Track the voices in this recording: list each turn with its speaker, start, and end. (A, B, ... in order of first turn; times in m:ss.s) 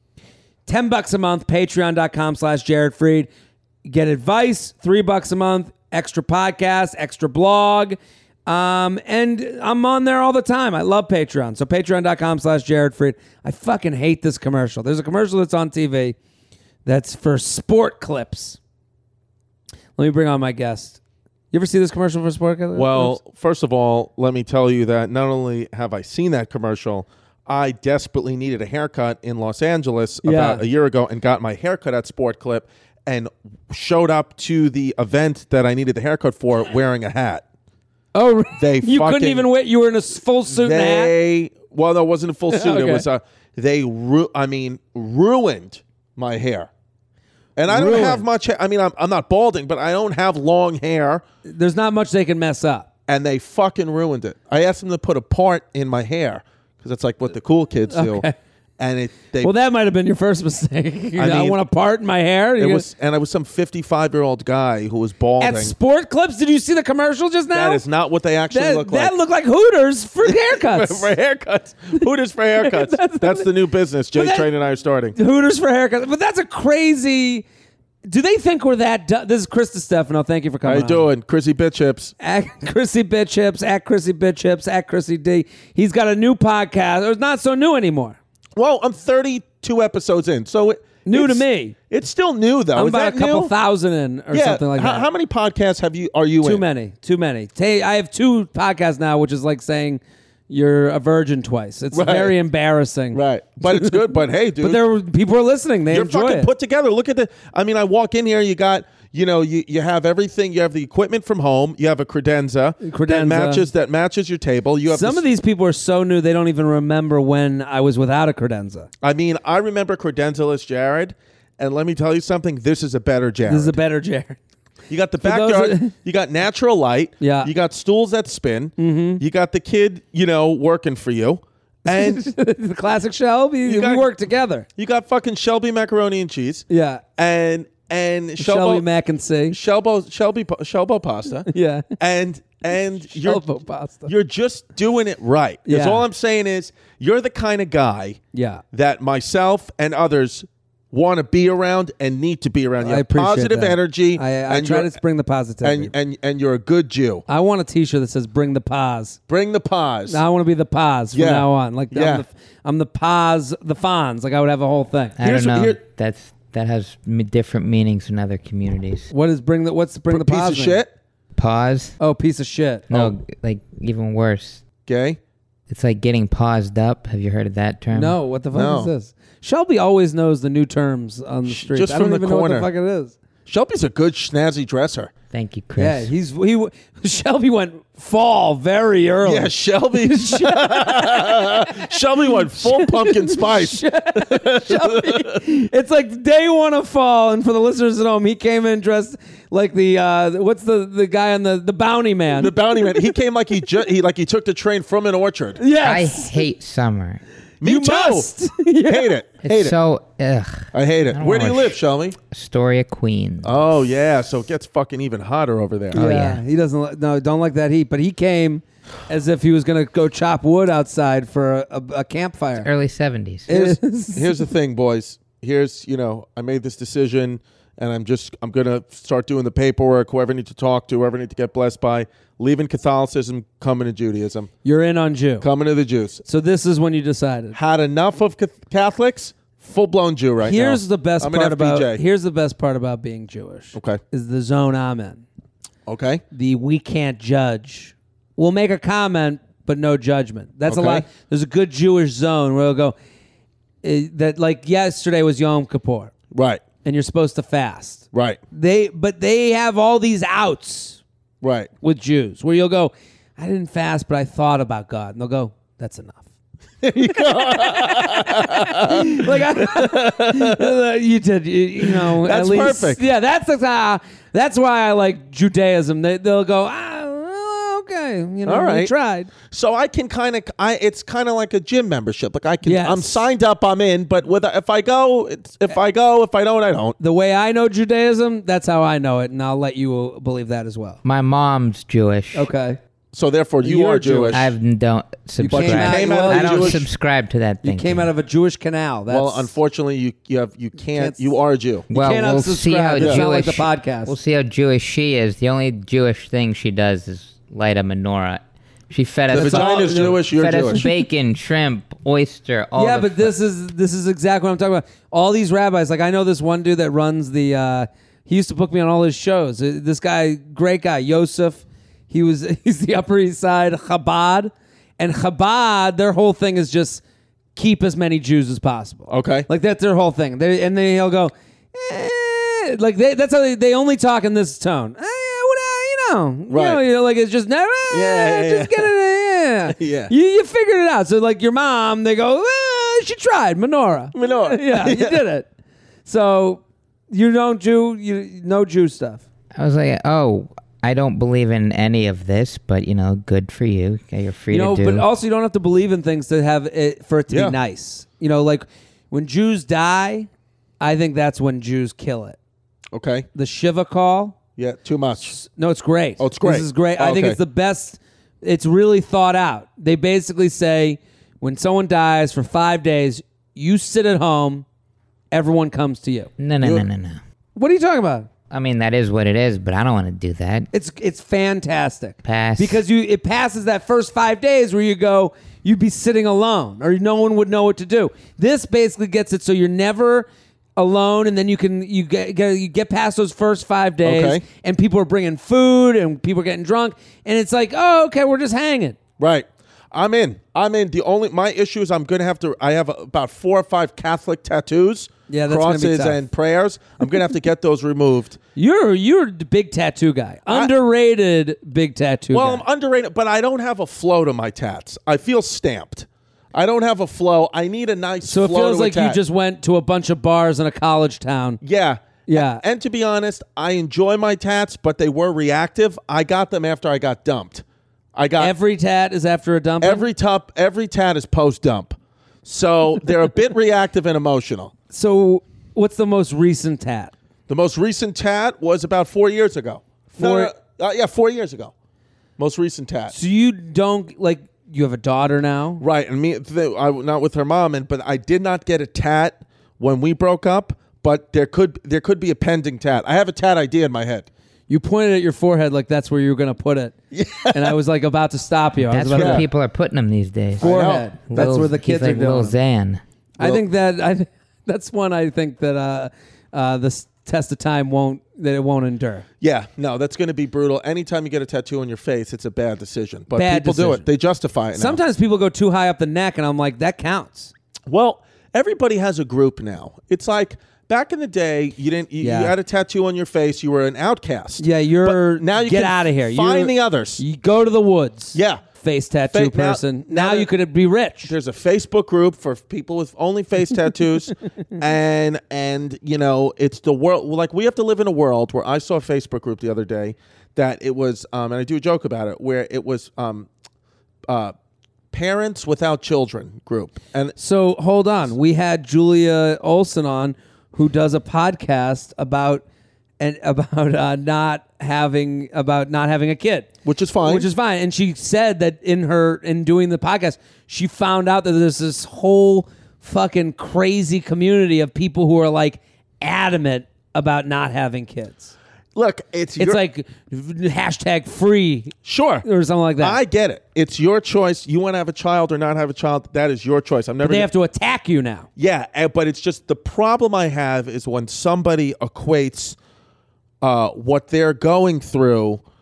0:00.7-0:03.3 A
0:03.8-0:16.2 A
0:16.8-0:18.6 A
0:20.0-0:21.0 A
0:21.5-0:23.2 A
0:22.8-0:37.4 B
0:30.2-0:30.6 A
0:38.1-0:41.1 A
0:38.6-0:39.5 B
0:40.6-0:46.7 B
0:42.5-0:43.0 A
0:47.6-0:51.2 B
0:47.7-0:48.2 A
0:51.5-0:52.9 A
0:53.1-0:58.3 B
0:57.9-0:58.3 A
0:58.8-0:59.5 B
0:59.4-1:02.9 A
1:01.2-1:01.6 B
1:02.6-1:05.7 B
1:05.4-1:07.8 A
1:07.5-1:09.2 B
1:08.5-1:11.1 A
1:10.3-1:15.2 B
1:12.6-1:13.5 A
1:14.1-1:14.5 A
1:15.2-1:17.4 A
1:18.1-1:21.1 A
1:20.6-1:22.1 B
1:22.2-1:28.2 A
1:28.6-1:33.5 B
1:31.1-1:31.8 A
1:32.8-1:35.1 A
1:34.3-1:36.6 B
1:36.4-1:44.0 A
1:41.9-1:42.4 B
1:43.1-1:44.8 B
1:44.6-1:46.5 A
1:45.9-1:55.3 B
1:52.8-1:53.7 A
1:54.9-1:58.9 A
1:59.0-2:03.8 B
2:03.5-2:04.4 A
2:04.9-2:12.3 B
2:05.2-2:05.9 A
2:07.2-2:07.5 A
2:08.8-2:09.2 A
2:11.9-2:14.7 A
2:13.7-2:14.1 B
2:14.8-2:18.8 B
2:16.7-2:17.0 A
2:18.4-2:19.6 A
2:19.5-2:23.5 B
2:21.5-2:21.9 A
2:23.1-2:24.1 A
2:24.1-2:28.2 B
2:25.7-2:26.0 A
2:28.3-2:28.6 A
2:28.7-2:35.0 B
2:32.8-2:35.9 A
2:35.6-2:37.2 B
2:37.3-2:39.2 A
2:39.3-2:40.2 B
2:40.1-2:45.2 A
2:41.1-2:42.2 B
2:45.2-2:49.1 C
2:45.2-2:45.8 B
2:49.1-2:50.8 A
2:50.1-2:50.9 B
2:51.4-2:52.0 C
2:52.0-2:52.9 A
2:52.9-2:54.6 C
2:54.9-2:55.2 B
2:55.7-2:58.2 C
2:57.9-3:03.2 A
2:58.5-2:58.9 B
3:01.5-3:02.7 B
3:03.5-3:05.1 B
3:05.3-3:06.1 C
3:05.8-3:12.0 A
3:09.2-3:15.4 B
3:12.5-3:23.0 A
3:22.4-3:25.6 B
3:25.6-3:26.4 A
3:25.8-3:27.2 C
3:27.6-3:29.1 A
3:27.6-3:28.3 B
3:28.8-3:29.8 B
3:29.4-3:31.8 C
3:30.7-3:32.2 B
3:32.3-3:33.6 C
3:33.4-3:36.0 B
3:35.9-3:36.4 C
3:35.9-3:42.7 A
3:42.6-3:43.5 C
3:43.5-3:44.5 A
3:43.5-3:54.5 B
3:54.6-3:55.5 A
3:55.4-3:56.2 B
3:56.2-3:57.6 A
3:57.6-4:02.0 B
4:00.4-4:05.2 A
4:03.7-4:04.0 B
4:05.9-4:06.2 B
4:06.3-4:13.0 A
4:10.7-4:11.0 B
4:13.8-4:16.1 A
4:16.3-4:16.6 B
4:16.8-4:21.0 A
4:18.1-4:18.4 B
4:21.4-4:21.7 B
4:21.8-4:26.3 A
4:26.8-4:30.8 B
4:27.1-4:39.3 A
4:31.8-4:33.0 B
4:38.5-4:38.9 B
4:39.5-4:47.0 B
4:42.6-4:43.3 A
4:47.0-4:51.0 A
4:51.0-4:52.5 C
4:52.4-4:52.8 A
4:53.1-4:54.4 B
4:53.6-4:54.5 A
4:54.3-4:58.1 C
4:55.4-4:56.8 A
4:55.5-4:56.8 B
4:57.6-4:59.5 A
4:59.1-5:01.9 B
5:00.9-5:01.3 A
5:01.9-5:04.2 A
5:01.9-5:13.3 C
5:03.0-5:03.2 B
5:09.3-5:10.8 B
5:09.3-5:11.0 A
5:12.8-5:27.0 A
5:27.6-5:45.5 A
5:29.1-5:29.5 B
5:36.5-5:36.8 B
5:37.9-5:38.9 B
5:39.7-5:40.1 B
5:44.1-5:45.2 B
5:46.1-5:49.2 A
5:49.5-5:55.1 C
5:54.5-6:00.3 A
5:57.3-5:57.6 B
6:00.8-6:02.4 A
6:02.9-6:03.3 B
6:03.4-6:04.4 A
6:04.6-6:05.4 B
6:05.3-6:14.6 A
6:06.2-6:07.4 B
6:15.3-6:16.3 A
6:16.4-6:17.2 C
6:17.6-6:18.3 A
6:18.5-6:20.7 C
6:20.7-6:39.0 A
6:22.2-6:22.8 C
6:34.0-6:34.4 B
6:39.2-6:48.4 B
6:45.3-6:46.2 A
6:48.6-6:52.6 A
6:52.3-6:59.2 B
6:58.3-7:01.6 A
7:01.6-7:07.6 B
7:02.3-7:02.6 A
7:08.2-7:08.5 B
7:08.4-7:10.0 A
7:09.8-7:14.7 B
7:14.9-7:17.1 A
7:17.5-7:21.7 B
7:20.1-7:20.5 A
7:22.4-7:23.2 B
7:23.1-7:25.8 A
7:25.8-7:34.3 B
7:34.7-7:36.9 A
7:37.1-7:37.7 B
7:37.5-7:39.5 A
7:38.9-7:43.0 C
7:39.1-7:39.5 B
7:40.6-7:41.7 B
7:40.6-7:42.6 A
7:43.4-7:49.2 A
7:49.4-7:55.0 B
7:53.4-7:54.1 A
7:54.8-7:57.5 A
7:57.9-8:07.2 B
8:02.2-8:02.5 A
8:04.6-8:11.3 A
8:08.3-8:08.6 B
8:09.3-8:10.5 B
8:11.3-8:23.5 B
8:24.3-8:24.5 B
8:25.1-8:27.4 B
8:27.4-8:32.6 A
8:33.2-8:36.7 A
8:36.8-8:37.5 B
8:37.2-8:48.5 A
8:49.0-8:49.8 B
8:49.6-8:53.2 A
8:52.0-8:52.5 B
8:53.0-8:57.5 B
8:57.2-8:58.5 A
8:58.6-9:02.8 B
9:03.6-9:05.6 B